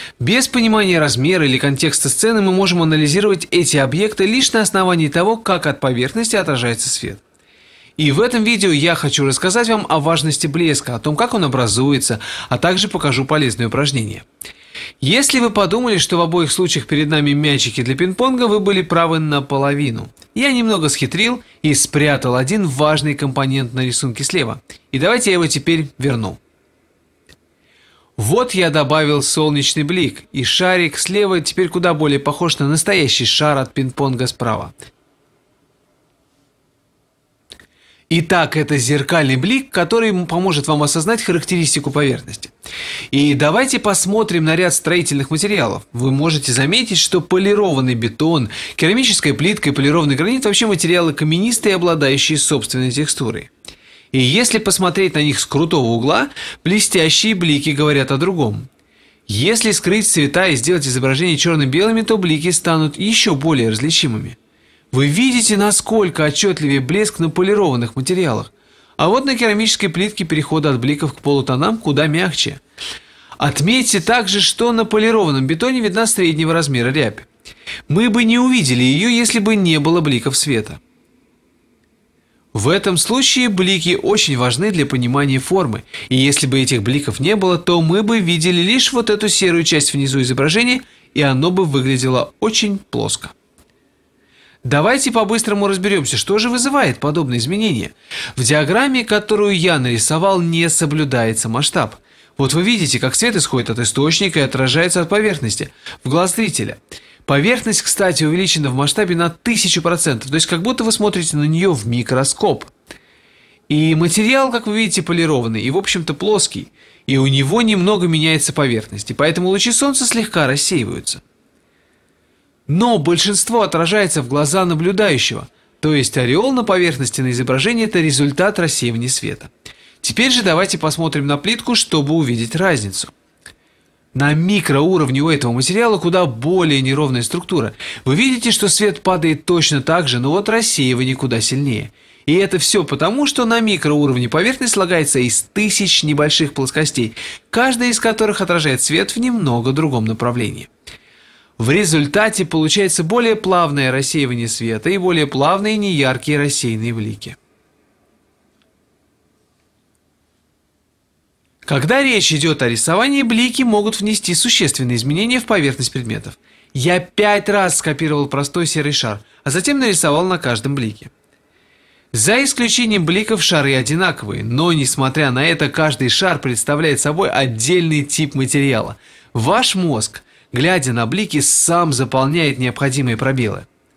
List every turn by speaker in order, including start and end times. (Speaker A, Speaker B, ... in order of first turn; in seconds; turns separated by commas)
Speaker A: 0.2-7.2, Speaker A: 8.0-14.2, Speaker A: 15.0-26.4, Speaker A: 28.2-34.7, Speaker A: 38.1-42.5, Speaker A: 43.1-53.5, Speaker A: 54.1-58.7, Speaker A: 59.3-64.4, Speaker A: 64.9-72.6, Speaker A: 73.4-77.3, Speaker A: 77.9-80.8, Speaker A: 82.5-93.3, Speaker A: 94.6-112.7, Speaker A: 113.7-121.2, Speaker A: 122.7-129.5, Speaker A: 130.0-133.1, Speaker A: 134.1-150.7, Speaker A: 151.6-157.4, Speaker A: 161.6-171.1, Speaker A: 172.1-183.7